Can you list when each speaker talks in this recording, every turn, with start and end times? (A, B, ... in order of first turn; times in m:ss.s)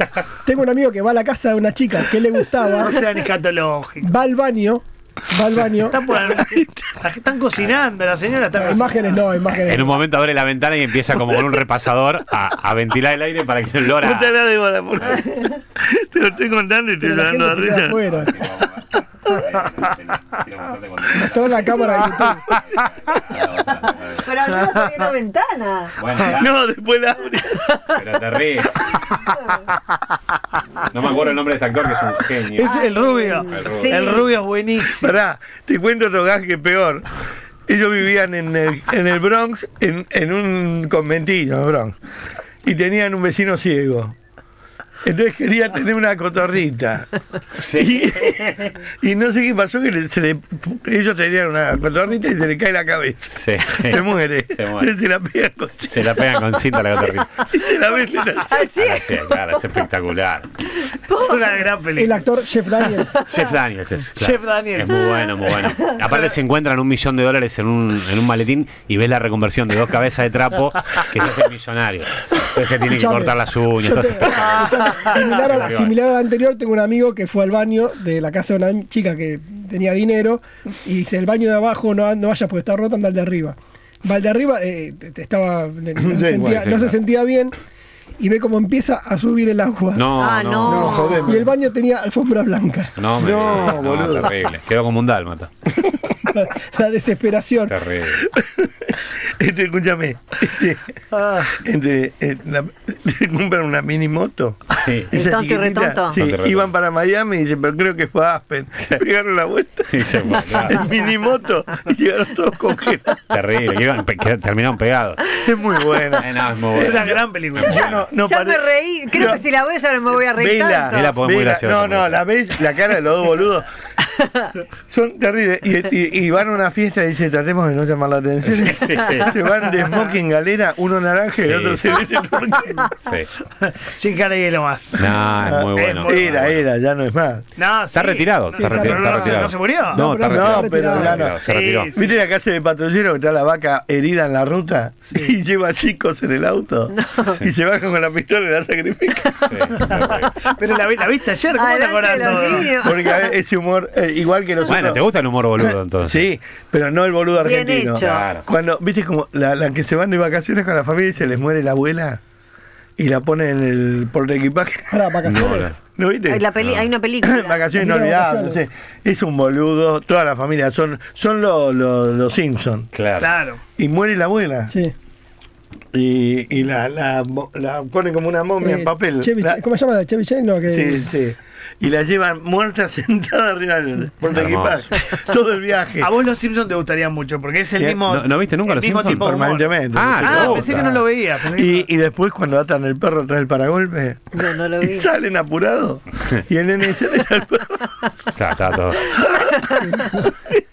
0:00.4-0:03.0 A
0:02.7-0:04.1 B
0:04.0-0:06.0 A
0:05.8-0:09.8 B
0:06.1-0:06.8 C
0:08.6-0:09.9 A
0:09.7-0:14.3 D
0:14.0-0:18.1 C
0:17.0-0:18.3 A
0:18.0-0:22.0 D
0:21.2-0:22.4 A
0:22.2-0:22.6 B
0:22.5-0:24.3 D
0:23.8-0:26.0 E
0:24.5-0:24.9 B
0:26.0-0:26.5 D
0:26.2-0:27.7 C
0:27.5-0:28.0 E
0:27.9-0:28.8 D
0:28.8-0:29.6 E
0:30.9-0:32.8 D
0:32.5-0:35.1 B
0:32.6-0:34.3 E
0:33.4-0:34.2 D
0:34.9-0:37.1 C
0:37.7-0:42.0 C
0:42.6-0:44.2 C
0:45.0-0:47.2 C
0:47.6-0:48.4 D
0:47.7-0:56.1 C
0:53.3-0:54.9 D
0:55.8-0:57.4 D
0:57.5-0:58.6 C
0:58.4-0:59.7 E
0:58.8-1:00.5 D
1:00.8-1:01.4 E
1:01.1-1:02.2 B
1:02.0-1:03.2 A
1:03.3-1:15.9 D
1:04.2-1:06.3 B
1:12.9-1:27.6 A
1:14.6-1:15.3 B
1:26.0-1:26.6 C
1:26.4-1:27.0 D
1:28.2-1:30.1 A
1:29.9-1:30.9 D
1:30.1-1:31.3 E
1:30.6-1:31.5 C
1:30.6-1:32.9 A
1:33.0-1:35.5 D
1:33.2-1:34.3 C
1:36.2-1:37.8 A
1:37.7-1:38.2 D
1:38.2-1:53.2 C
1:41.1-1:41.5 B
1:44.7-1:45.1 D
1:45.1-1:46.2 E
1:46.1-1:46.7 D
1:49.9-1:50.9 D
1:53.3-1:55.3 D
1:55.3-1:59.4 C
1:56.2-1:58.1 D
1:56.7-1:57.9 B
1:58.2-2:01.1 E
2:00.3-2:03.6 C
2:00.9-2:02.2 D
2:04.2-2:04.5 E
2:04.9-2:12.9 C
2:08.4-2:09.3 D
2:11.3-2:12.0 D
2:13.0-2:13.3 D
2:13.6-2:16.5 B
2:15.0-2:16.6 D
2:15.4-2:17.4 C
2:17.6-2:20.0 B
2:17.9-2:21.9 D
2:18.6-2:21.3 A
2:20.2-2:29.4 C
2:21.4-2:22.2 B
2:26.9-2:27.4 E
2:29.2-2:30.5 E
2:29.4-2:30.3 D
2:30.4-2:32.7 B
2:31.5-2:33.3 E
2:32.2-2:35.0 C
2:34.6-2:36.2 D
2:35.6-2:42.2 C
2:37.4-2:38.3 E
2:38.0-2:38.4 D
2:43.0-2:46.4 C
2:44.9-2:45.7 A
2:45.2-2:45.8 D
2:46.3-2:47.6 E
2:46.6-2:46.9 D
2:47.2-2:52.9 C
2:47.8-2:48.6 A
2:52.9-2:53.3 D
2:53.2-2:53.6 B
2:53.8-2:54.7 C
2:55.9-2:59.6 C
2:58.6-3:01.0 A
3:00.7-3:06.1 C
3:04.2-3:04.9 D
3:06.0-3:11.9 B
3:08.1-3:09.2 D
3:09.0-3:17.9 C
3:09.9-3:10.8 D
3:14.3-3:15.1 E
3:18.4-3:19.1 D
3:19.1-3:20.6 C